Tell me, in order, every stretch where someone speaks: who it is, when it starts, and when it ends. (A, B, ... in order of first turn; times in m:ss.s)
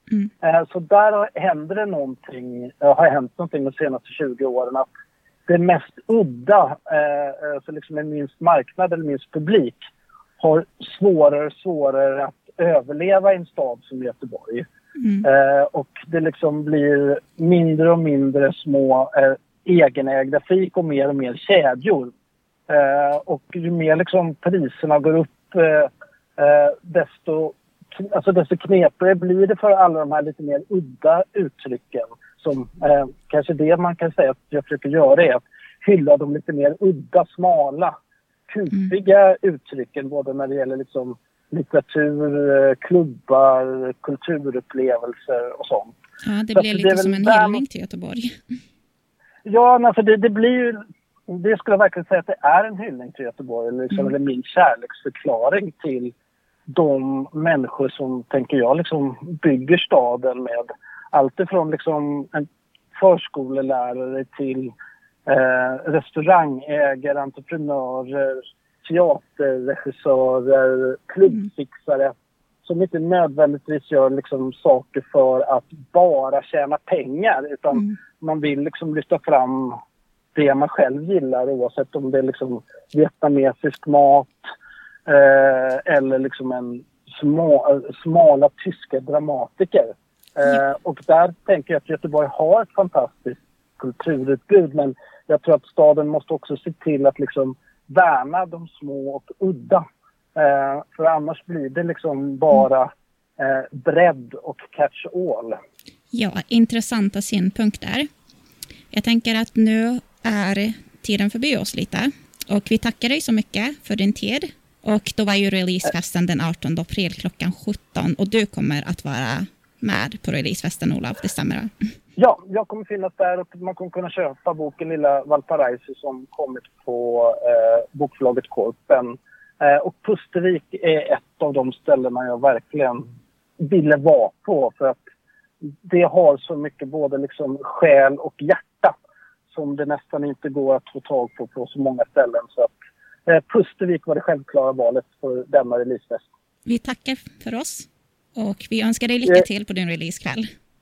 0:00.4-0:04.9 A
0:05.5-0:09.8 A
0:10.4-0:14.6 A
0:15.0-0:15.2 B
0:15.2-0:22.1 A
0:22.7-0:37.9 A
0:38.5-0:45.9 A
0:46.2-0:48.3 B
0:46.5-0:47.6 A
0:49.4-0:56.1 A
0:56.7-1:04.7 A
1:05.2-1:12.1 A
1:12.6-1:19.8 A
1:20.3-1:24.4 A
1:25.1-1:39.8 A
1:40.3-1:45.6 A
1:46.1-1:48.1 B
1:48.9-2:01.7 B
2:02.2-2:13.0 A
2:13.6-2:15.0 A
2:15.8-2:18.9 A
2:19.5-2:22.7 A
2:23.2-2:26.2 A
2:26.6-2:30.4 B